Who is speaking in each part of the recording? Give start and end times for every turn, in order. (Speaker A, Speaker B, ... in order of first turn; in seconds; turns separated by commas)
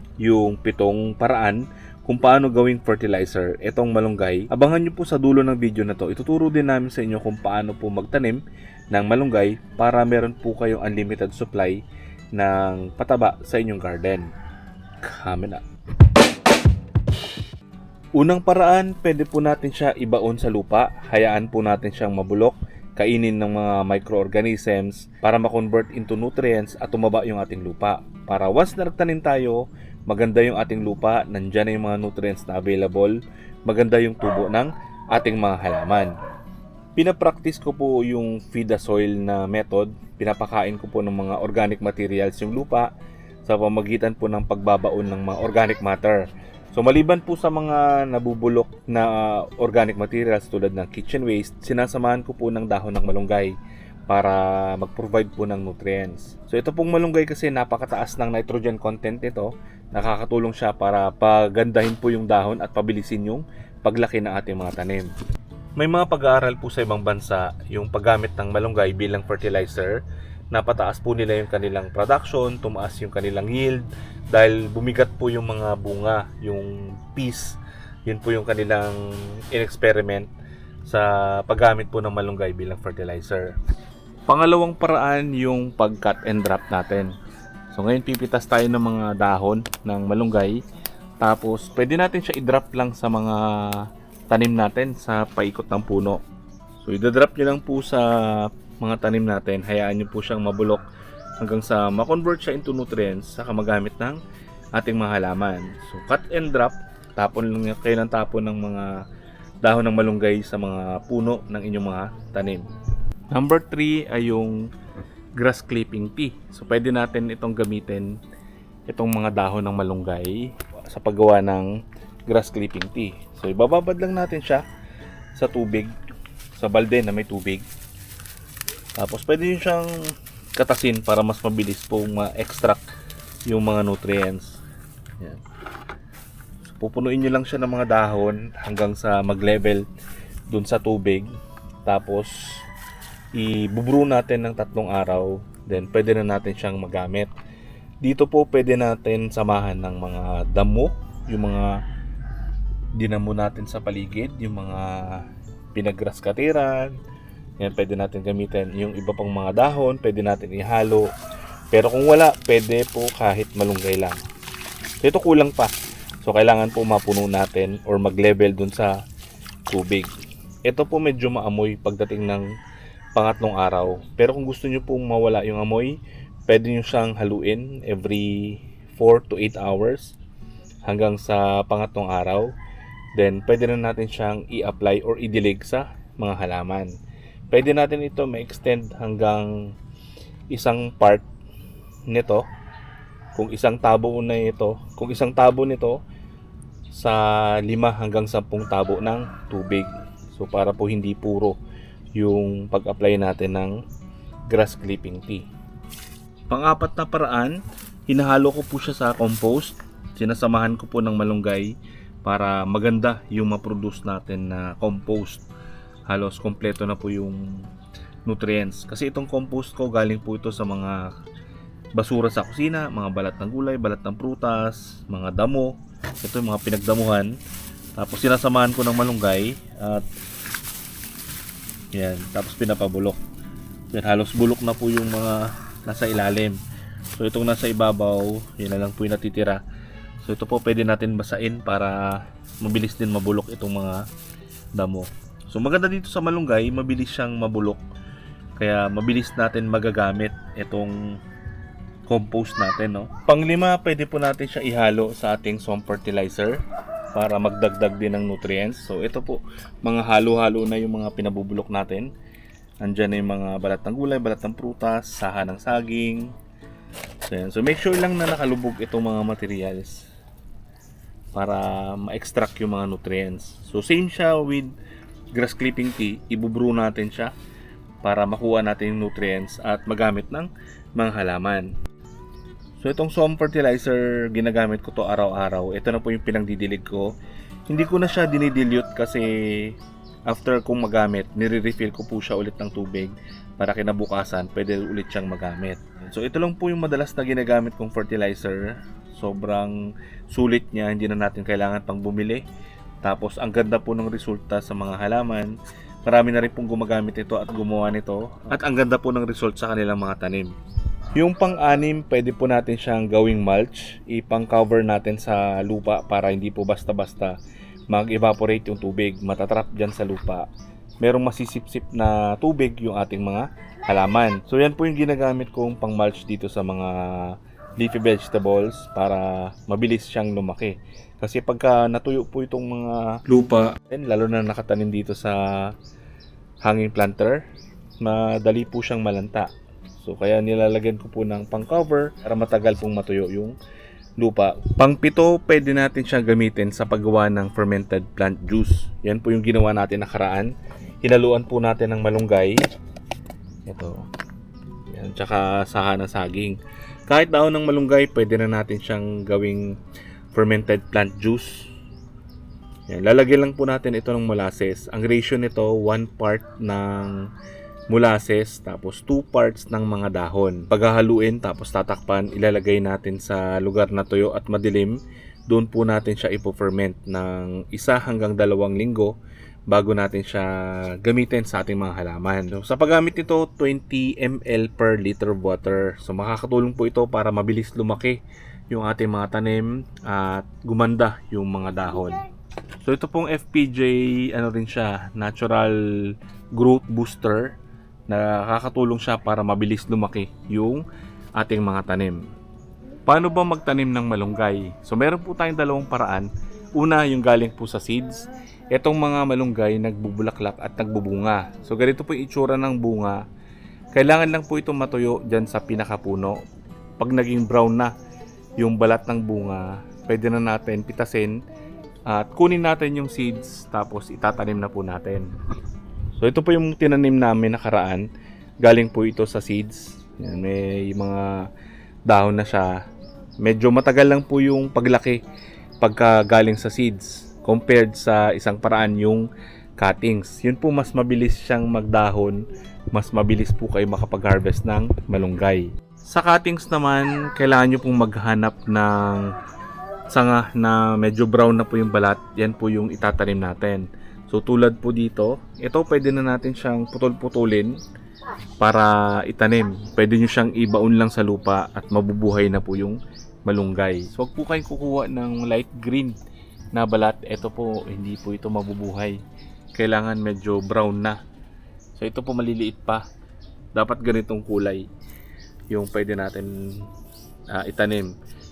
Speaker A: 0.2-11.8, Speaker A: 12.3-14.3, Speaker A: 15.0-15.6, Speaker A: 18.1-36.1, Speaker A: 37.0-42.9, Speaker A: 43.4-53.5, Speaker A: 54.1-65.1, Speaker A: 65.8-80.3, Speaker A: 80.8-83.5, Speaker A: 84.3-87.1, Speaker A: 87.7-90.6, Speaker A: 91.2-96.2, Speaker A: 96.8-100.8, Speaker A: 101.4-104.2, Speaker A: 104.7-109.0, Speaker A: 109.6-112.7, Speaker A: 113.3-114.7, Speaker A: 115.3-118.1, Speaker A: 118.9-121.7, Speaker A: 122.3-124.6, Speaker A: 125.3-125.9, Speaker A: 126.5-127.7, Speaker A: 129.0-129.9, Speaker A: 130.6-132.8, Speaker A: 133.5-134.6, Speaker A: 136.8-139.8, Speaker A: 140.5-141.3, Speaker A: 141.8-142.3, Speaker A: 143.3-147.3, Speaker A: 148.0-151.8, Speaker A: 152.9-157.0, Speaker A: 157.6-161.1, Speaker A: 161.7-164.2, Speaker A: 165.0-168.9, Speaker A: 169.7-170.1, Speaker A: 170.6-172.5, Speaker A: 173.1-180.2, Speaker A: 180.9-182.5, Speaker A: 183.2-186.9, Speaker A: 187.5-189.5, Speaker A: 190.5-191.2, Speaker A: 192.1-192.4, Speaker A: 193.3-196.0, Speaker A: 196.9-201.6, Speaker A: 202.2-203.8, Speaker A: 204.5-205.5, Speaker A: 206.5-215.4, Speaker A: 216.1-217.5, Speaker A: 218.2-221.1, Speaker A: 221.9-227.3, Speaker A: 227.9-230.0, Speaker A: 231.9-233.2, Speaker A: 233.9-236.6, Speaker A: 237.1-239.6, Speaker A: 240.2-244.0, Speaker A: 244.8-247.8, Speaker A: 248.6-251.2, Speaker A: 252.1-256.6, Speaker A: 257.1-262.1, Speaker A: 262.8-266.3, Speaker A: 267.3-270.1, Speaker A: 271.3-274.7, Speaker A: 275.3-277.3, Speaker A: 278.0-281.7, Speaker A: 282.8-287.1, Speaker A: 287.7-299.8, Speaker A: 300.3-302.4, Speaker A: 303.0-310.5, Speaker A: 311.1-317.4, Speaker A: 317.9-320.5, Speaker A: 321.0-335.7, Speaker A: 336.6-337.4, Speaker A: 338.0-339.5, Speaker A: 340.0-343.5, Speaker A: 344.2-350.5, Speaker A: 351.0-352.6, Speaker A: 353.7-354.0, Speaker A: 354.9-356.6, Speaker A: 357.1-359.7, Speaker A: 360.3-361.6, Speaker A: 362.9-367.2, Speaker A: 367.9-375.0, Speaker A: 375.5-379.1, Speaker A: 379.7-388.2, Speaker A: 388.7-392.2, Speaker A: 392.8-397.6, Speaker A: 398.1-400.8, Speaker A: 401.4-402.2, Speaker A: 403.1-413.2, Speaker A: 413.9-416.4, Speaker A: 417.0-417.9, Speaker A: 418.6-421.4, Speaker A: 422.1-425.3, Speaker A: 426.2-428.1, Speaker A: 428.6-431.3, Speaker A: 432.1-432.7, Speaker A: 433.4-435.2, Speaker A: 435.8-439.3, Speaker A: 439.8-442.4, Speaker A: 442.9-449.3, Speaker A: 450.1-457.8, Speaker A: 458.6-466.1, Speaker A: 466.7-469.2, Speaker A: 469.7-471.2, Speaker A: 471.9-473.1, Speaker A: 473.7-474.9, Speaker A: 475.7-476.8, Speaker A: 477.5-478.1